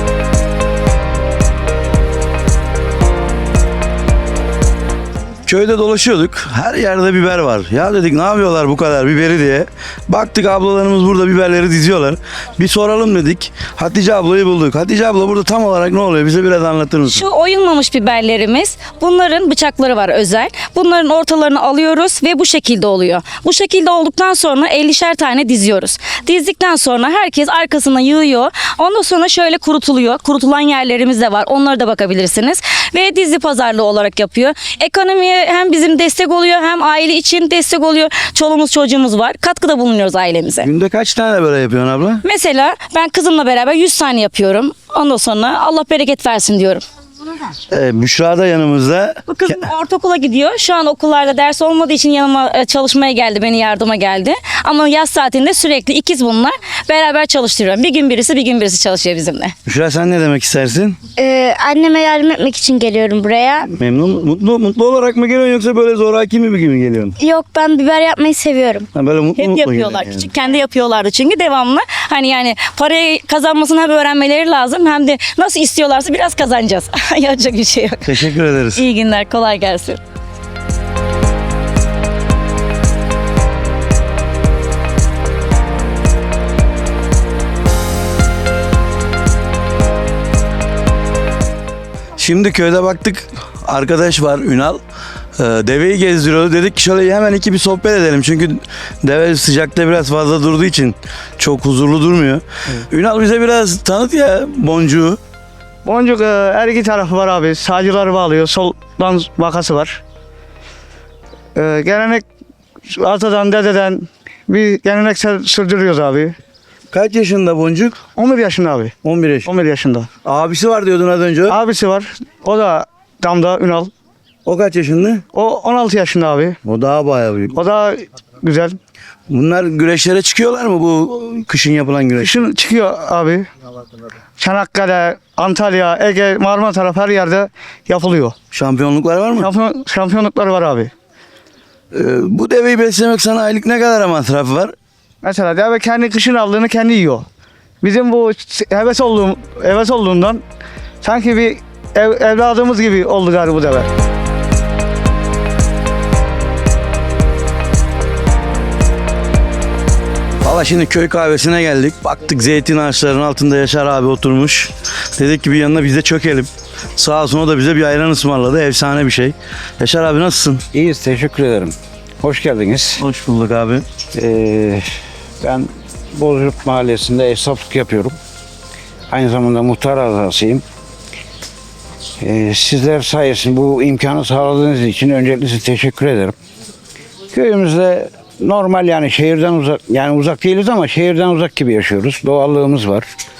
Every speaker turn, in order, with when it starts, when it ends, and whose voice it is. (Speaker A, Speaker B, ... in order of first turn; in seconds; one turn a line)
Speaker A: 5.5-17.2
Speaker B: 17.1-40.7
Speaker A: 40.6-42.2
Speaker B: 42.2-46.8
Speaker A: 47.7-49.6
Speaker B: 49.3-59.5
Speaker A: 59.6-61.0
Speaker C: 61.2-63.7
Speaker B: 63.3-63.5
Speaker A: 63.7-67.2
Speaker C: 67.2-68.9
Speaker A: 68.9-70.3
Speaker B: 69.4-80.0
Speaker A: 78.0-78.8
Speaker A: 92.2-94.8
Speaker A: 95.4-105.2
Speaker D: 105.8-110.0
Speaker D: 111.5-112.2
Speaker D: 112.9-116.3
Speaker A: 116.9-118.0
Speaker D: 118.2-118.9
Speaker A: 119.0-119.5
Speaker D: 119.5-120.1
Speaker A: 120.2-121.6
Speaker D: 121.5-123.9
Speaker A: 124.5-125.2
Speaker D: 125.3-126.5
Speaker A: 126.6-127.6
Speaker D: 127.5-128.8
Speaker A: 129.3-132.4
Speaker D: 132.2-133.5
Speaker D: 134.4-138.3
Speaker A: 138.5-139.5
Speaker D: 139.4-140.9
Speaker A: 141.9-144.7
Speaker D: 145.2-147.2
Speaker D: 147.8-150.4
Speaker D: 151.0-153.9
Speaker A: 160.4-170.6
Speaker E: 170.7-173.0
Speaker A: 173.0-173.8
Speaker E: 174.1-174.9
Speaker E: 175.4-178.2
Speaker E: 179.1-180.6
Speaker E: 182.2-186.3
Speaker E: 187.3-193.1